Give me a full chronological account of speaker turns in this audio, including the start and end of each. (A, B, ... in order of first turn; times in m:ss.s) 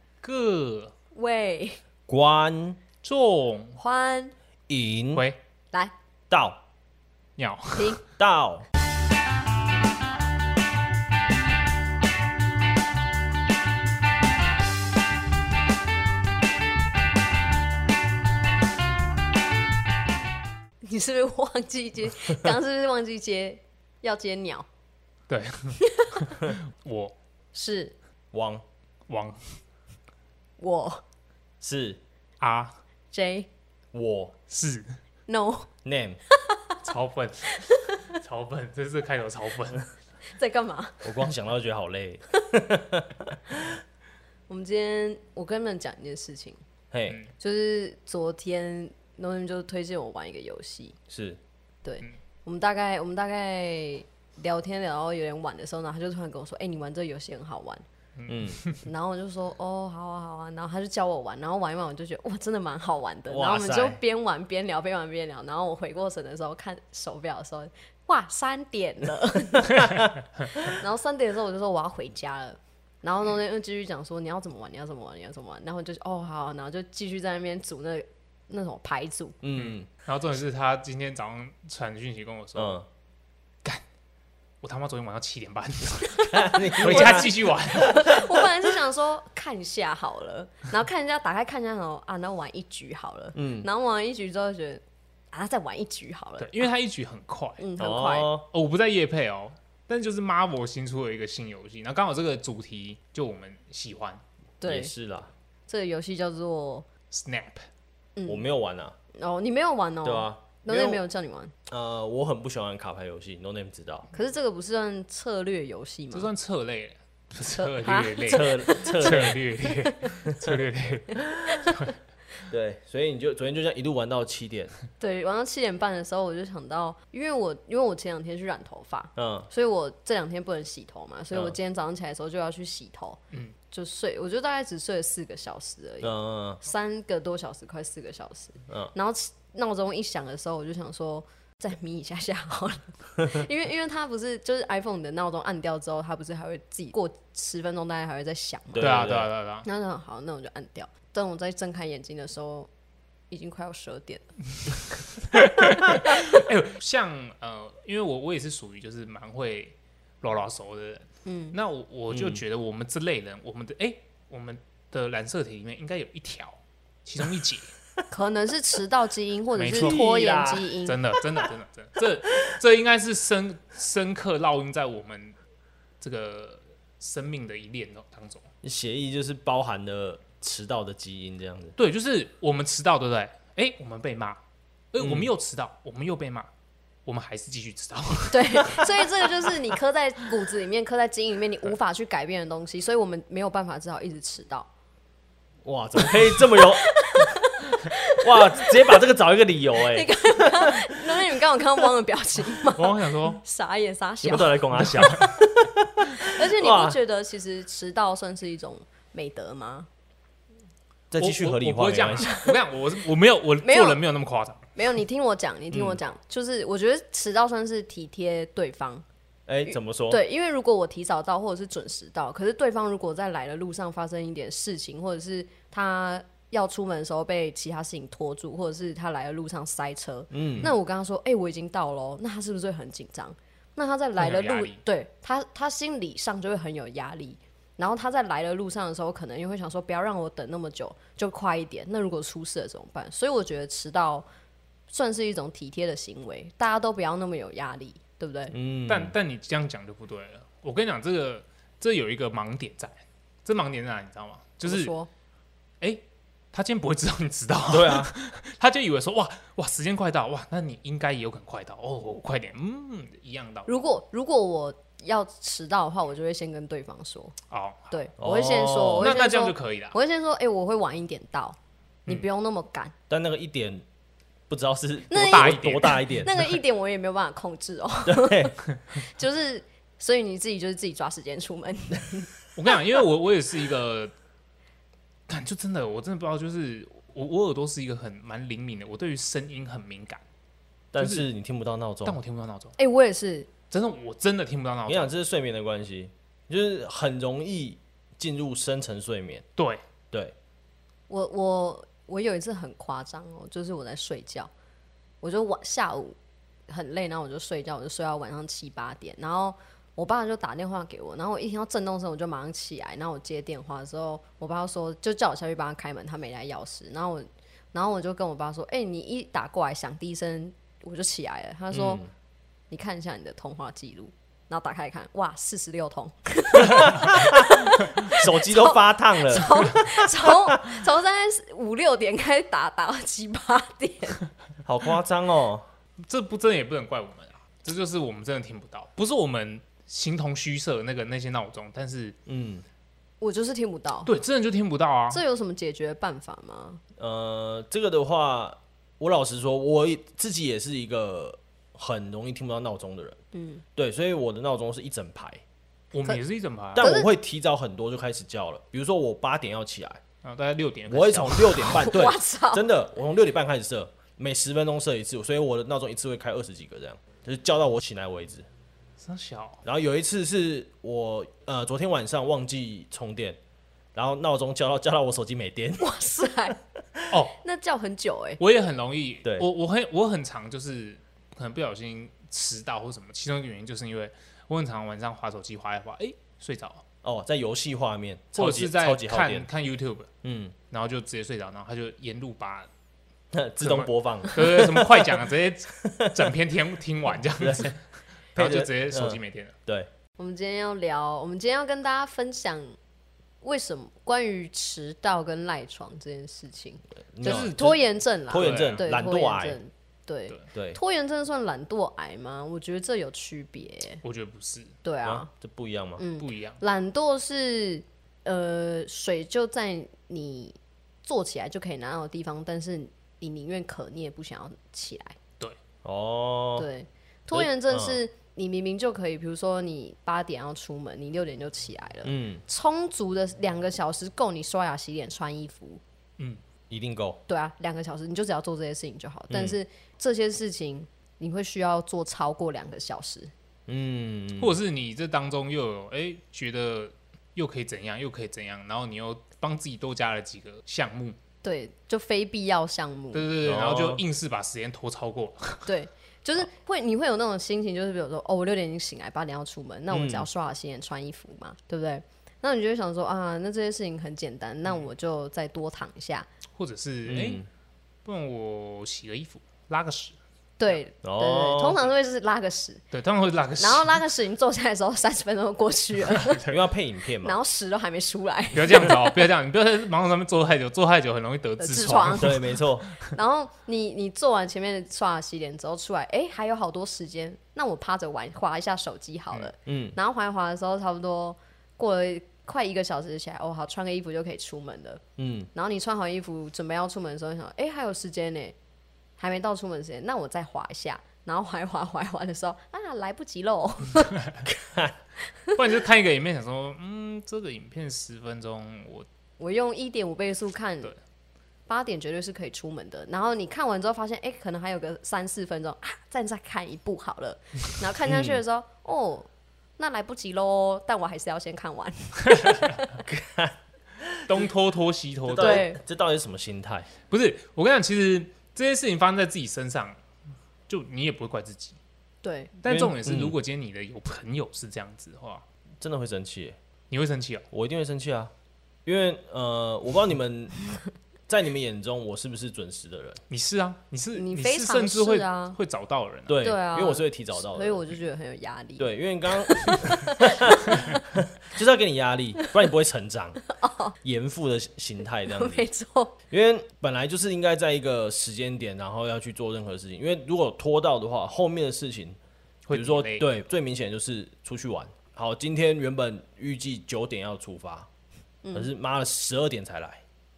0:00.2-0:00.9 A
0:01.1-0:01.8 B
0:02.1-0:02.8 C
0:03.0-0:03.8 A
0:03.8-0:04.3 B
0:04.7-0:05.2 C
0:06.3-0:06.6 C
0:07.4-0:07.9 A
0:07.8-0:08.0 B
0:08.2-0:08.7 C
0:20.8-0:24.7 B
0:25.3-0:27.1 A
0:27.5-0:27.9 B
0:28.3-0:28.6 C
0:29.1-0:29.5 A
0:30.6-0:31.0 B
0:31.6-0:32.0 C
0:32.4-0:32.7 A
0:33.1-0:33.5 B
0:33.9-0:34.3 C
0:34.5-0:35.0 A
0:35.3-0:35.7 B
0:35.8-0:36.2 C
0:36.3-0:36.8 B
0:36.8-0:39.8 A
0:37.5-0:38.0 B
0:40.3-0:41.1 B
0:41.0-0:43.8 C
0:44.5-0:46.6 B
0:46.9-0:47.2 C
0:47.4-0:51.0 B
0:51.1-0:51.4 C
0:51.8-0:57.8 B
0:58.2-0:58.8 A
0:58.3-0:58.6 C
0:58.8-1:10.0 B
1:03.3-1:04.0 C
1:09.7-1:10.0 A
1:10.5-1:19.4 B
1:19.4-1:19.9 C
1:19.5-1:22.8 A
1:22.6-1:22.8 C
1:24.6-1:28.1 A
1:26.2-1:36.7 B
1:26.3-1:28.4 C
1:33.4-1:33.7 C
1:36.4-1:37.6 A
1:37.6-1:38.3 B
1:37.8-1:38.5 C
1:38.5-1:44.2 A
1:44.6-1:44.9 B
1:44.6-1:45.3 C
1:45.7-1:46.8 B
1:47.1-1:47.6 A
1:48.2-1:48.4 B
1:48.2-1:48.9 C
1:49.1-1:51.5 B
1:50.0-1:51.0 C
1:51.7-1:54.1 C
1:54.1-1:56.3 B
1:56.1-2:01.9 A
1:57.6-2:00.0 B
1:58.3-1:59.4 C
2:01.2-2:01.8 B
2:02.5-2:04.8 C
2:05.0-2:13.2 B
2:09.2-2:09.5 C
2:13.7-2:28.9 B
2:16.0-2:16.6 C
2:28.7-2:29.3 C
2:28.8-2:29.7 A
2:29.6-2:32.7 B
2:33.3-2:34.3 B
2:35.3-2:47.7 A
2:41.2-2:41.6 B
2:42.1-2:42.4 C
2:48.1-2:51.0 B
2:49.6-2:50.0 A
2:49.7-2:50.7 C
2:50.8-2:55.4 A
2:56.0-2:58.4 A
2:58.6-3:01.7 C
3:01.8-3:04.4 A
3:04.9-3:06.5 A
3:05.0-3:05.3 C
3:07.0-3:08.8 A
3:08.3-3:14.7 B
3:15.6-3:17.4 C
3:16.0-3:19.0 B
3:18.2-3:21.1 C
3:19.7-3:25.0 B
3:22.6-3:23.4 A
3:24.2-3:27.0 C
3:24.8-3:25.2 A
3:26.2-3:29.9 B
3:31.1-3:32.4 C
3:31.2-3:34.6 A
3:32.2-3:32.6 B
3:33.6-3:34.0 B
3:34.8-3:39.0 B
3:35.7-3:36.0 C
3:39.5-3:40.2 C
3:39.7-4:04.2 B
3:50.3-3:50.7 C
3:54.2-3:54.8 A
4:04.9-4:08.5 B
4:08.5-4:09.1 C
4:08.9-4:14.9 A
4:14.6-4:15.1 B
4:15.8-4:23.7 A
4:17.7-4:18.1 C
4:23.7-4:27.4 B
4:27.5-4:27.9 A
4:27.9-4:32.9 B
4:28.2-4:29.1 C
4:29.0-4:30.0 A
4:33.1-4:33.8 C
4:34.5-4:36.5 C
4:35.1-4:42.3 B
4:35.1-4:36.0 A
4:38.0-4:38.5 C
4:42.5-4:44.1 A
4:45.3-4:50.2 A
4:50.9-4:52.2 C
4:51.0-4:51.3 A
4:52.0-4:52.8 A
4:52.8-4:53.5 B
4:53.7-4:55.1 A
4:54.9-4:59.4 C
5:01.1-5:04.5 B
5:05.2-5:06.2 B
5:06.7-5:22.0 B
5:21.7-5:22.0 C
5:22.7-5:34.2 B
5:26.7-5:30.6 C
5:34.6-5:35.6 C
5:36.0-5:42.2 A
5:42.2-5:42.6 C
5:43.2-5:44.1 B
5:44.0-5:45.2 A
5:45.1-5:46.8 B
5:47.0-5:53.2 C
5:53.3-5:53.6 B
5:53.8-5:55.4 C
5:55.9-5:56.9 A
5:56.7-6:00.0 C
5:56.8-5:57.1 B
6:00.2-6:01.8 A
6:00.9-6:08.5 C
6:01.6-6:02.6 B
6:09.0-6:09.6 A
6:09.6-6:13.4 C
6:13.9-6:16.0 C
6:15.8-6:16.6 B
6:16.5-6:17.1 C
6:17.3-6:18.4 B
6:18.4-6:26.8 A
6:27.0-6:29.5 C
6:28.4-6:30.1 A
6:30.2-6:30.5 C
6:30.7-6:32.7 A
6:33.3-6:35.1 C
6:33.6-6:37.8 A
6:35.8-6:36.2 C
6:37.4-6:37.7 C
6:38.3-6:39.5 A
6:38.3-6:39.9 C
6:40.2-6:42.7 B
6:43.4-6:54.0 B
6:47.1-6:47.8 C
6:47.2-6:47.8 A
6:48.3-6:49.6 C
6:48.3-6:48.8 A
6:50.5-6:50.8 C
6:54.0-6:54.7 A
6:54.8-6:55.3 B
6:55.0-6:56.0 C
6:56.0-7:05.2 B
6:56.2-6:56.6 A
7:05.8-7:06.7 C
7:06.6-7:15.8 B
7:07.3-7:08.0 C
7:12.0-7:12.4 C
7:16.7-7:17.2 C
7:17.3-7:23.3 B
7:19.3-7:19.6 C
7:23.7-7:24.6 C
7:24.4-7:31.2 A
7:31.4-7:33.3 B
7:33.1-7:35.7 A
7:33.4-7:34.0 C
7:35.7-7:46.3 B
7:39.9-7:40.3 C
7:46.5-7:47.4 A
7:47.0-7:47.5 C
7:48.0-7:50.2 A
7:50.6-7:52.8 B
7:51.0-7:51.8 C
7:52.9-7:53.9 A
7:53.6-7:56.5 B
7:56.2-7:56.5 A
7:56.4-7:57.4 C
7:57.2-7:59.2 B
7:58.5-8:02.4 A
8:01.6-8:15.0 B
8:02.2-8:02.8 C
8:09.6-8:10.0 C
8:15.2-8:15.5 C
8:15.5-8:18.5 B
8:19.2-8:24.3 B
8:24.5-8:24.9 C
8:25.5-8:29.1 A
8:29.4-8:30.9 B
8:31.7-8:42.9 B
8:38.0-8:38.4 C
8:42.3-8:42.8 A
8:43.0-8:44.3 C
8:44.2-8:45.7 A
8:45.3-8:46.9 C
8:45.4-8:45.8 B
8:47.1-8:50.0 A
8:50.7-8:51.8 A
8:52.2-8:52.5 B
8:52.6-8:55.4 A
8:52.7-8:53.3 C
8:55.8-8:56.6 C
8:56.9-8:57.4 A
8:57.5-8:58.3 C
8:58.8-9:00.6 C
9:01.3-9:03.2 C
9:03.3-9:06.4 A
9:04.1-9:05.6 B
9:06.3-9:07.8 C
9:06.4-9:11.0 B
9:08.8-9:13.4 C
9:13.5-9:13.9 B
9:14.0-9:15.6 C
9:15.3-9:16.2 B
9:16.3-9:22.2 C
9:22.7-9:23.3 A
9:22.7-9:27.9 C
9:28.4-9:28.7 B
9:28.5-9:30.0 C